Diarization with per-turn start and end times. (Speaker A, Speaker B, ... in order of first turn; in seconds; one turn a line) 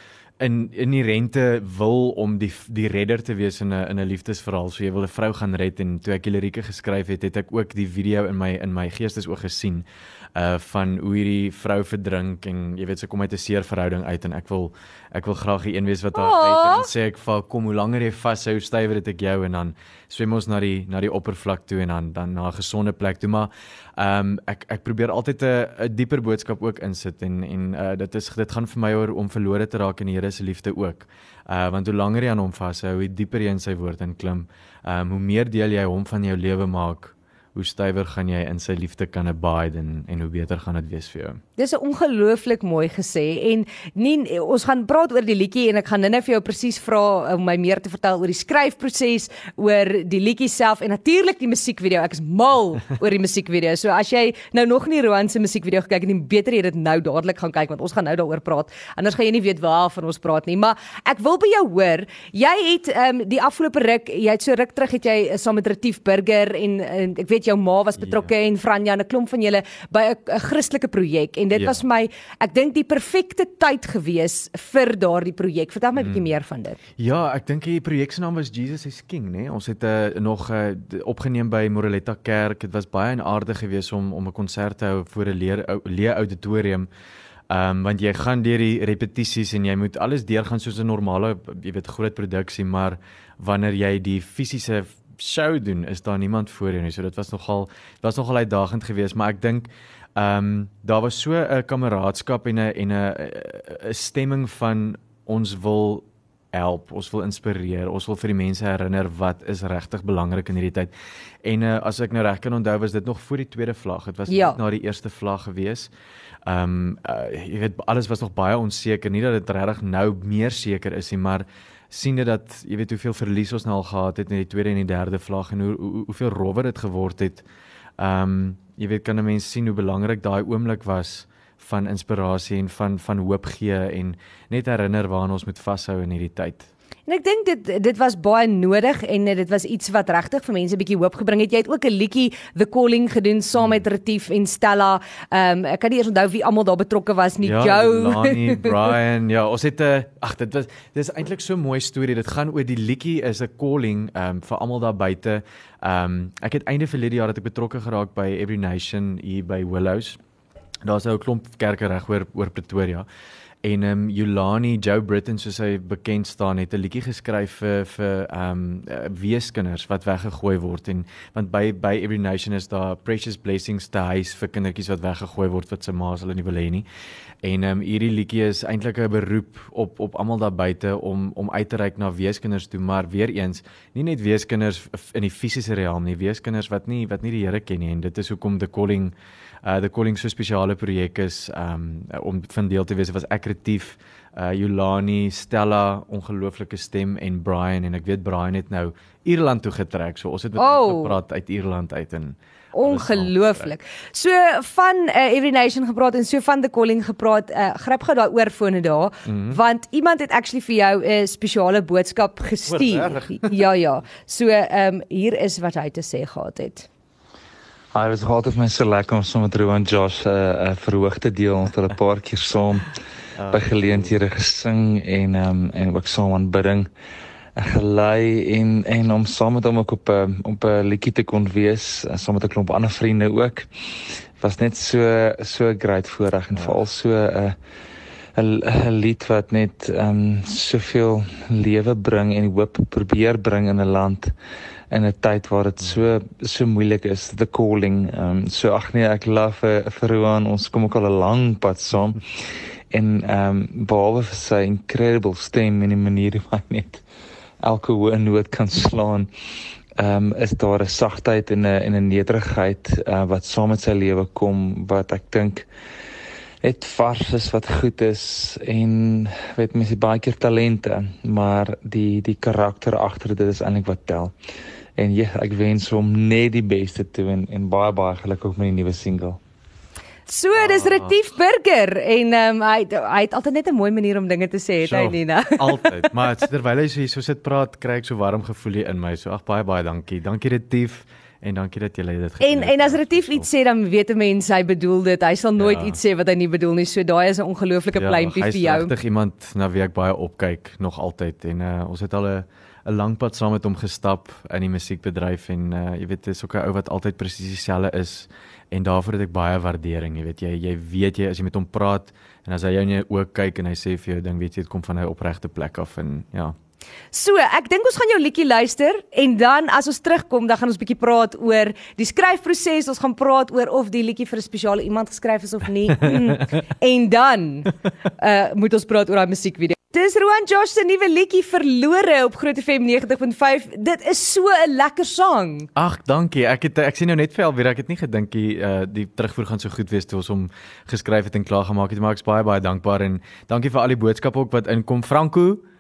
Speaker A: 0.4-41.4
Speaker B: 16.1-16.9
Speaker B: 41.6-76.8
Speaker A: 68.0-68.3
Speaker A: 71.5-71.8
Speaker A: 76.0-76.3
Speaker A: 77.0-86.9
Speaker A: 87.5-110.9
Speaker A: 111.4-115.9
Speaker B: 114.3-114.6
Speaker A: 116.5-127.4
Speaker A: 128.0-136.7
Speaker B: 137.1-148.9
Speaker A: 147.4-160.2
Speaker A: 160.8-163.1
Speaker A: 163.6-176.9
Speaker A: 177.4-203.7
Speaker B: 200.6-201.2
Speaker B: 202.7-216.9
Speaker A: 209.3-209.6
Speaker A: 212.7-213.5
Speaker C: 217.9-222.9
Speaker A: 223.4-224.2
Speaker C: 223.5-226.9
Speaker C: 227.6-233.7
Speaker C: 234.4-237.6
Speaker A: 236.5-236.8
Speaker C: 238.4-244.3
Speaker C: 244.9-252.2
Speaker C: 252.9-257.0
Speaker C: 257.6-259.3
Speaker C: 260.0-265.7
Speaker C: 266.6-274.3
Speaker C: 275.0-279.4
Speaker B: 280.3-286.1
Speaker A: 280.6-281.1
Speaker A: 284.8-293.5
Speaker B: 292.4-298.9
Speaker A: 295.6-296.0
Speaker A: 298.0-316.5
Speaker B: 317.1-335.7
Speaker A: 335.8-345.6